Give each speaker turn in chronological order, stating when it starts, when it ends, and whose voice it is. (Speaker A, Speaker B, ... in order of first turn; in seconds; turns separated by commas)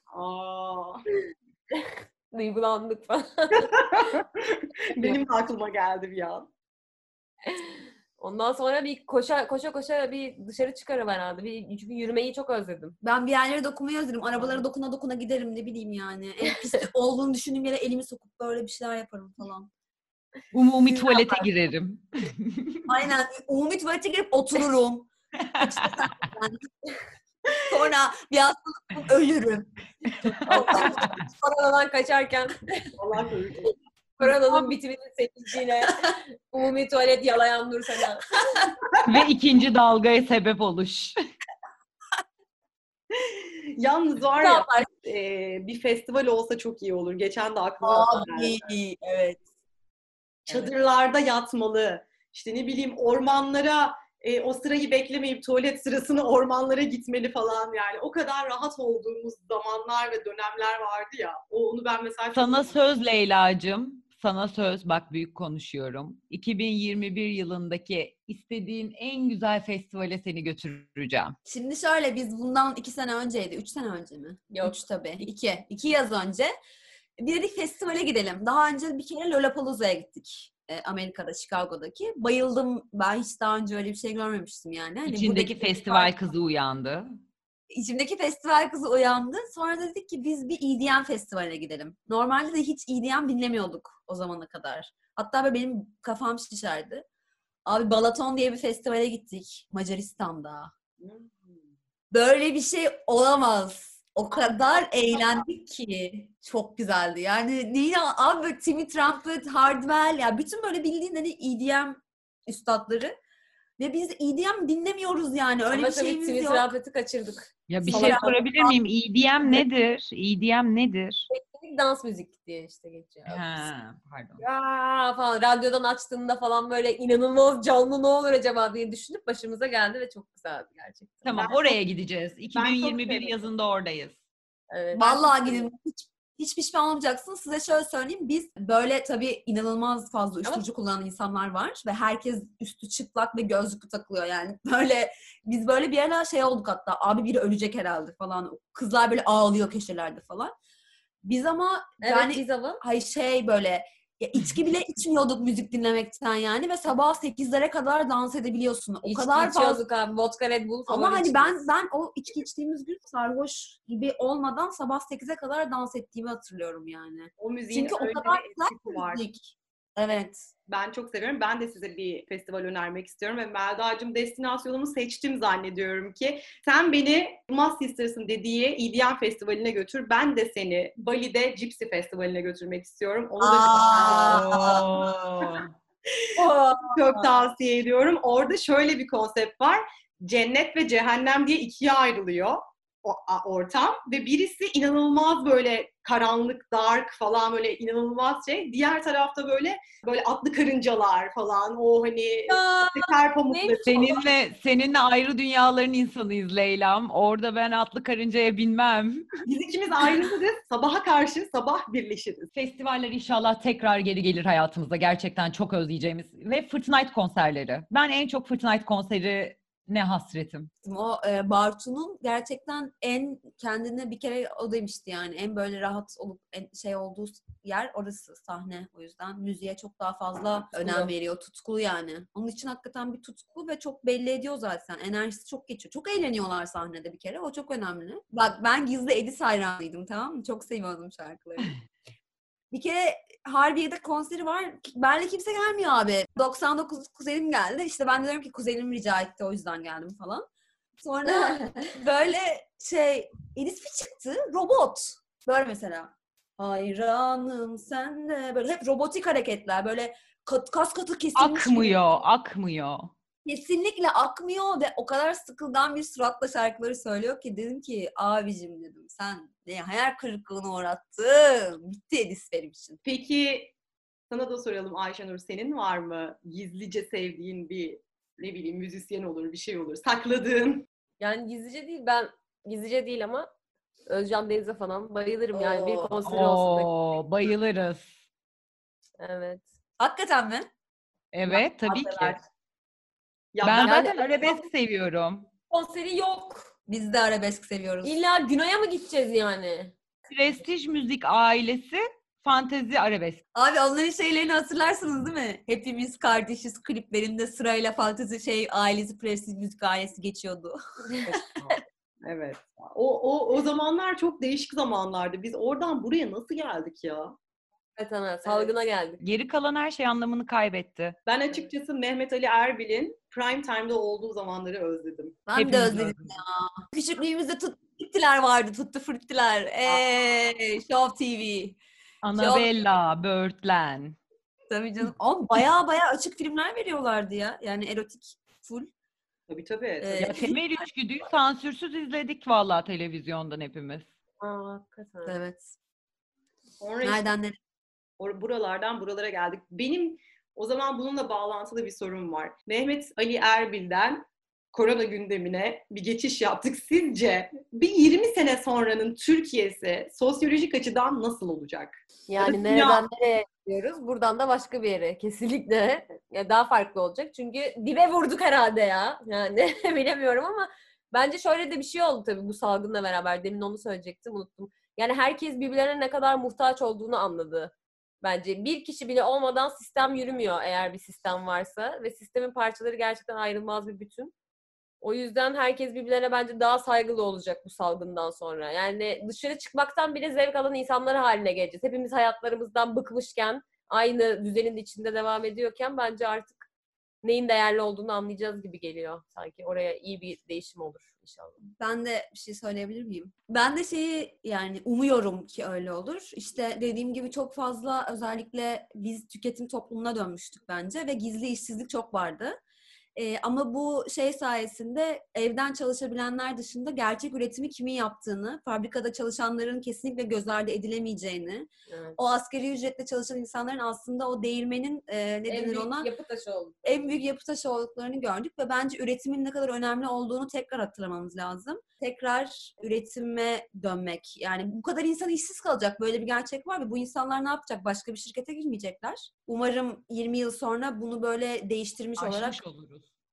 Speaker A: 0.1-1.0, Speaker B: 1.7-3.9, Speaker A: 3.6-6.5, Speaker B: 7.5-13.0, Speaker C: 13.0-19.7, Speaker D: 20.5-22.9, Speaker C: 20.9-21.4, Speaker C: 22.9-26.7, Speaker D: 25.5-26.0, Speaker C: 27.7-29.7, Speaker D: 30.2-31.1, Speaker C: 30.4-31.1, Speaker B: 30.5-32.8, Speaker A: 33.0-33.7, Speaker B: 34.2-38.7, Speaker D: 39.0-41.1, Speaker A: 43.1-48.6, Speaker B: 44.4-44.9, Speaker C: 47.8-49.4, Speaker A: 50.5-62.8, Speaker D: 62.3-71.3, Speaker C: 71.5-76.5, Speaker B: 74.5-74.8, Speaker C: 77.2-86.1, Speaker D: 85.0-87.1, Speaker C: 87.7-97.0, Speaker C: 97.7-100.7, Speaker A: 101.0-101.6, Speaker C: 102.1-113.1, Speaker C: 113.8-116.7, Speaker B: 115.7-118.4, Speaker D: 117.7-121.3, Speaker C: 117.8-118.8, Speaker B: 121.3-123.7, Speaker D: 123.3-124.4, Speaker B: 124.4-131.5, Speaker D: 131.2-134.2, Speaker A: 131.3-131.8, Speaker A: 132.5-133.3, Speaker B: 134.7-135.7, Speaker C: 134.9-150.5, Speaker C: 151.2-159.8, Speaker B: 152.0-152.8, Speaker B: 159.0-161.6, Speaker C: 160.9-170.5, Speaker A: 167.4-169.2, Speaker A: 170.7-184.5, Speaker C: 183.4-184.9, Speaker D: 184.0-185.7, Speaker B: 186.4-187.2, Speaker A: 186.9-204.2, Speaker C: 202.5-203.1, Speaker B: 203.5-204.2, Speaker D: 203.8-209.3, Speaker A: 209.4-212.5, Speaker D: 212.5-220.7, Speaker C: 220.8-241.8, Speaker B: 230.8-231.1, Speaker C: 242.7-250.5, Speaker C: 251.0-262.0, Speaker B: 251.3-251.6, Speaker D: 261.3-263.1, Speaker C: 263.4-273.0, Speaker A: 273.0-273.7, Speaker A: 274.3-280.9, Speaker B: 281.2-283.5, Speaker B: 284.1-286.9, Speaker C: 285.5-286.2, Speaker D: 286.2-288.1, Speaker B: 289.2-289.6, Speaker C: 290.0-290.7, Speaker D: 291.3-292.4, Speaker C: 291.5-292.4, Speaker A: 293.5-294.1, Speaker D: 293.6-295.5, Speaker B: 293.7-294.6, Speaker B: 295.7-296.7, Speaker C: 296.9-298.1, Speaker B: 298.0-300.0, Speaker D: 300.3-303.4, Speaker C: 303.5-311.3, Speaker A: 312.2-317.3, Speaker B: 317.9-319.2, Speaker D: 319.2-321.2, Speaker A: 321.3-325.4, Speaker C: 325.5-331.8, Speaker D: 325.6-326.4, Speaker D: 332.2-334.2, Speaker C: 332.3-332.7, Speaker C: 334.7-338.9, Speaker A: 339.5-340.4, Speaker C: 340.0-340.6, Speaker D: 340.2-344.1, Speaker B: 344.4-345.4, Speaker C: 345.2-345.7, Speaker A: 346.8-347.2, Speaker C: 347.0-347.6, Speaker A: 348.2-363.0, Speaker B: 362.3-384.3, Speaker B: 385.0-396.6, Speaker B: 397.2-401.6, Speaker C: 401.8-412.6, Speaker C: 413.1-426.1, Speaker B: 421.9-422.2, Speaker B: 425.5-427.0, Speaker C: 426.8-442.6, Speaker D: 442.2-443.1